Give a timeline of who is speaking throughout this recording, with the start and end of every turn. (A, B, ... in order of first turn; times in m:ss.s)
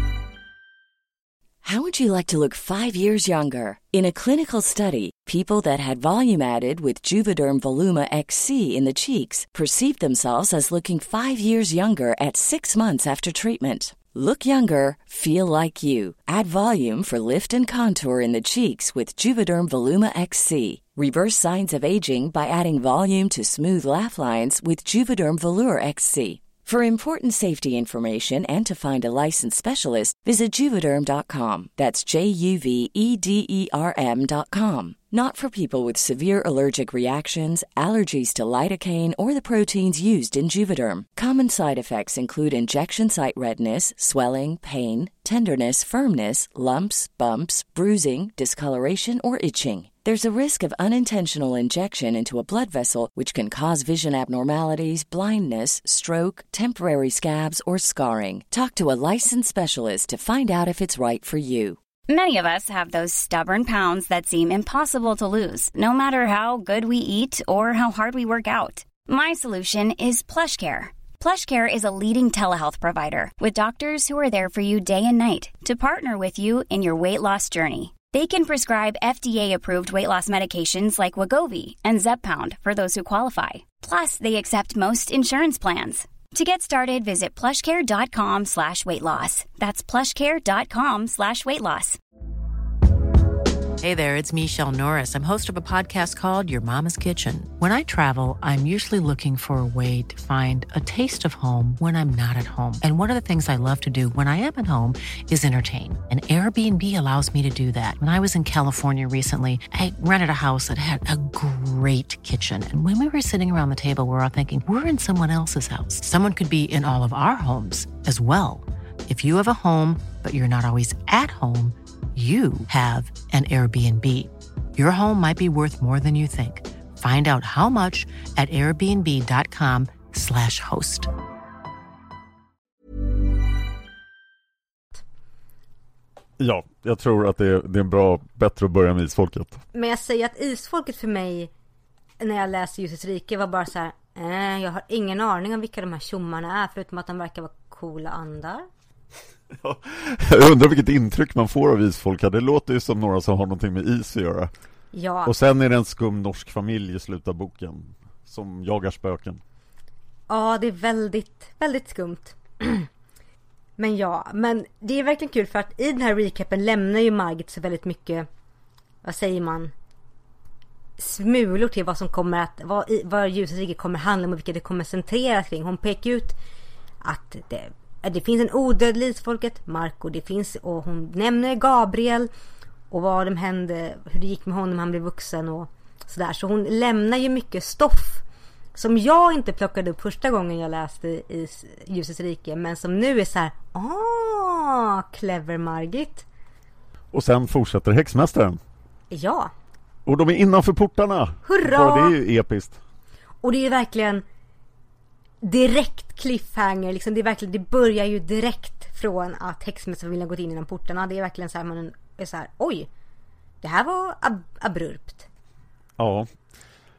0:01.6-1:01.8 A
1:02.1-1:32.0 B
1:33.8-2:11.1 C
2:16.4-2:19.6 D
2:19.7-2:21.5 E
2:22.2-2:28.7 E
2:29.6-2:34.5 D
2:34.9-2:35.3 E
2:35.2-2:39.4 D
2:40.3-2:42.9 E
2:43.8-2:48.3 E
2:49.0-2:49.7 E
2:51.0-2:56.4 E
2:57.0-3:02.3 E
3:02.9-3:08.2 E
3:08.7-3:16.2 E
3:17.1-3:18.6 D
3:19.1-3:19.5 E
3:20.0-3:22.8 D
3:21.4-3:22.2 E
3:23.4-3:24.2 E
3:25.4-3:32.9 E
3:33.6-3:35.3 E
3:36.0-3:36.3 D